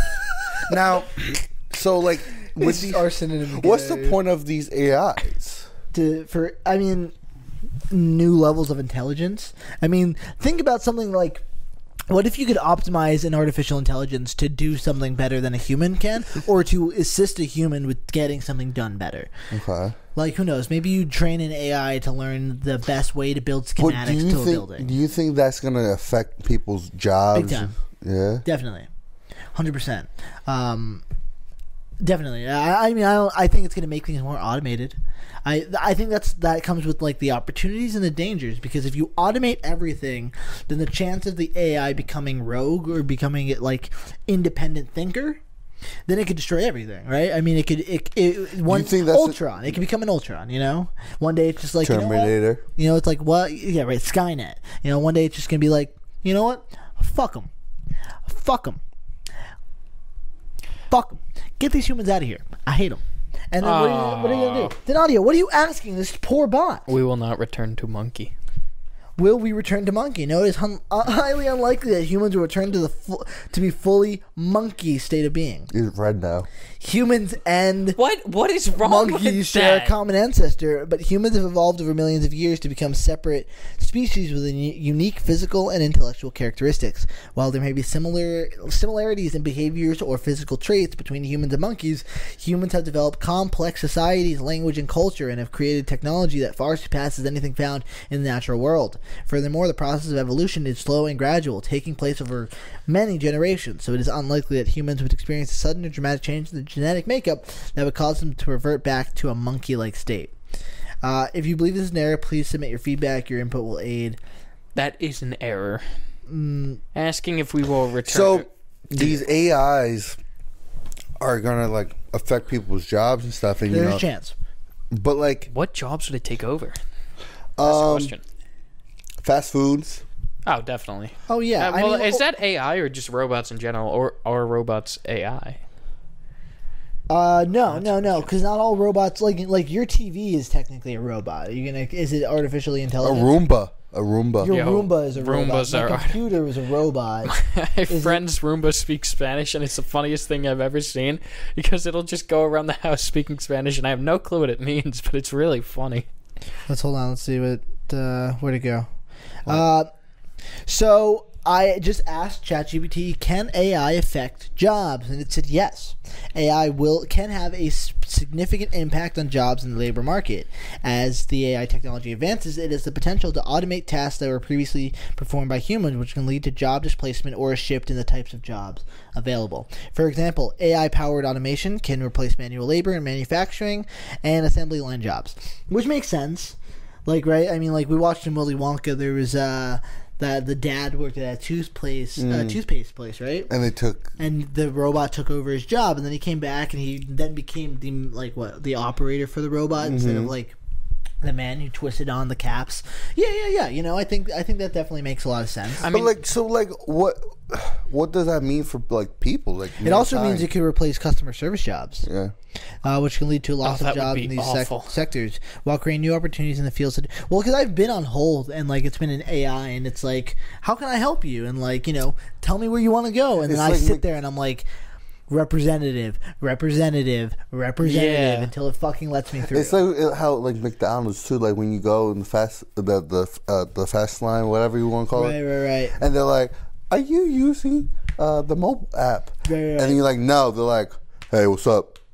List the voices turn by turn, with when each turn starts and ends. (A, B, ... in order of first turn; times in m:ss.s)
0:00.5-0:05.7 A
0:02.6-0:04.2 B
0:05.9-0:07.1 B
0:07.9-0:11.4 B
0:12.1-0:19.3 B
0:19.5-0:20.0 A
0:20.2-0:24.9 B
0:23.8-0:28.4 A
0:27.3-0:27.8 B
0:28.4-0:28.9 B
0:29.6-0:31.0 B
0:32.0-0:45.4 B
0:46.1-0:57.5 B
0:48.7-0:49.4 A
0:51.8-0:52.6 A
0:58.3-0:58.8 B
1:00.9-1:06.9 B
1:03.6-1:04.8 C
1:06.9-1:08.3 C
1:09.2-1:15.7 B
1:15.7-1:16.5 A
1:16.8-1:18.0 B
1:18.0-1:20.0 C
1:18.7-1:50.3 B
1:51.0-1:54.2 B
1:54.8-1:55.8 C
1:56.3-1:56.8 B
1:57.0-1:58.5 C
1:58.1-2:00.2 A
2:01.2-2:04.0 A
2:03.7-2:04.4 B
2:04.9-2:05.5 A
2:05.5-2:06.8 C
2:07.6-2:08.1 A
2:07.6-2:08.2 C
2:09.2-2:10.0 A
2:10.5-2:15.6 C
2:11.3-2:12.2 B
2:17.1-2:23.3 B
2:17.7-2:18.3 C
2:23.0-2:24.5 A
2:24.4-2:27.3 B
2:24.4-2:26.2 C
2:27.2-2:36.1 C
2:27.9-2:28.2 B
2:36.7-2:38.9 B
2:39.5-2:39.9 B
2:40.7-3:13.5 B
3:12.2-3:12.6 A
3:13.5-3:14.1 A
3:14.2-3:20.6 B
3:19.8-3:20.3 A
3:21.2-3:25.9 B
3:25.8-3:26.2 C
3:25.9-3:30.5 A
3:29.8-3:32.0 B
3:32.0-3:32.3 A
3:32.8-3:44.7 B
3:33.6-3:34.9 C
3:43.4-3:44.0 A
3:45.3-3:49.8 B
3:47.8-3:48.5 C
3:49.5-3:55.4 A
3:55.1-3:56.0 B
3:56.0-4:02.0 A
3:59.5-4:00.0 B